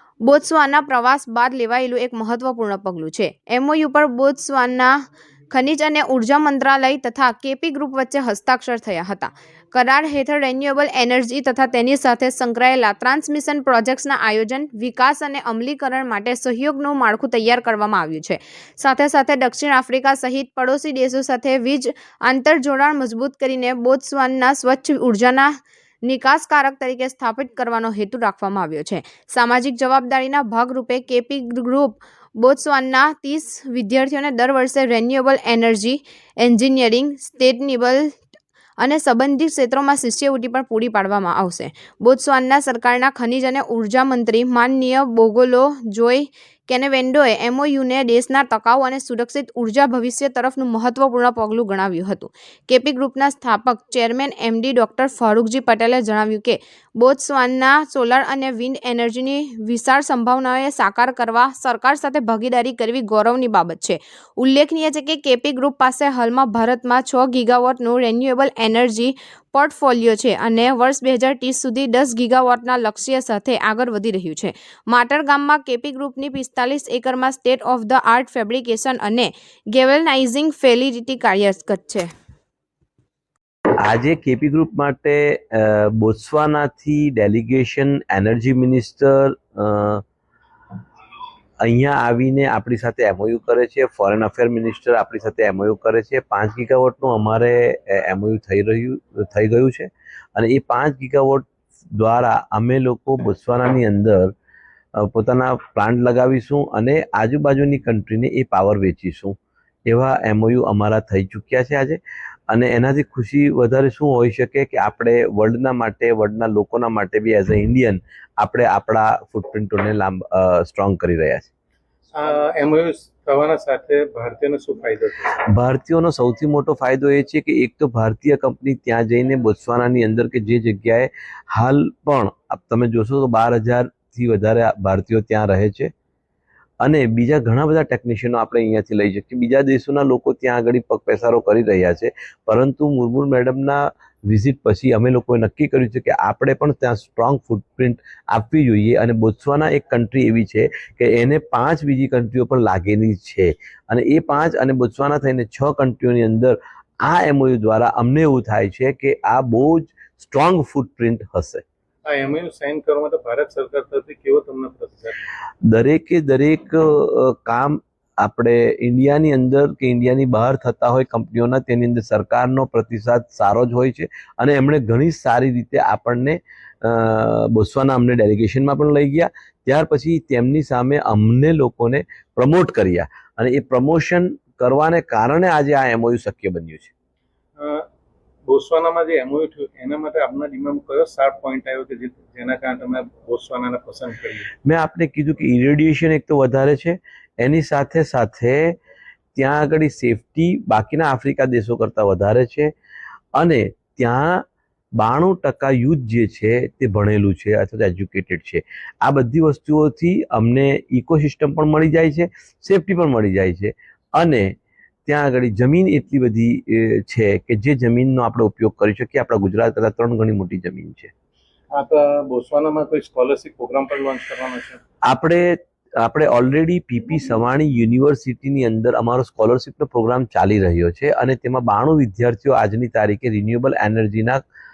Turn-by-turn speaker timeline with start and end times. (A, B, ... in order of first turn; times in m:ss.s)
0:00.2-0:05.0 A
0:05.5-0:25.5 A
0:26.0-0:38.2 A
0:38.8-1:22.1 A
1:23.8-1:30.0 B
1:31.6-1:44.3 B
1:45.0-2:01.5 B
2:02.1-2:05.4 C
2:05.5-2:15.9 B
2:16.8-2:41.6 B
2:42.1-2:45.3 C
2:45.7-3:06.9 B
3:07.6-3:07.8 C
3:08.5-3:14.5 C
3:14.6-3:18.8 B
3:19.4-3:22.7 B
3:23.4-3:24.4 B
3:25.0-3:34.5 B
3:35.1-3:41.1 B
3:41.7-3:44.8 C
3:45.1-3:54.4 B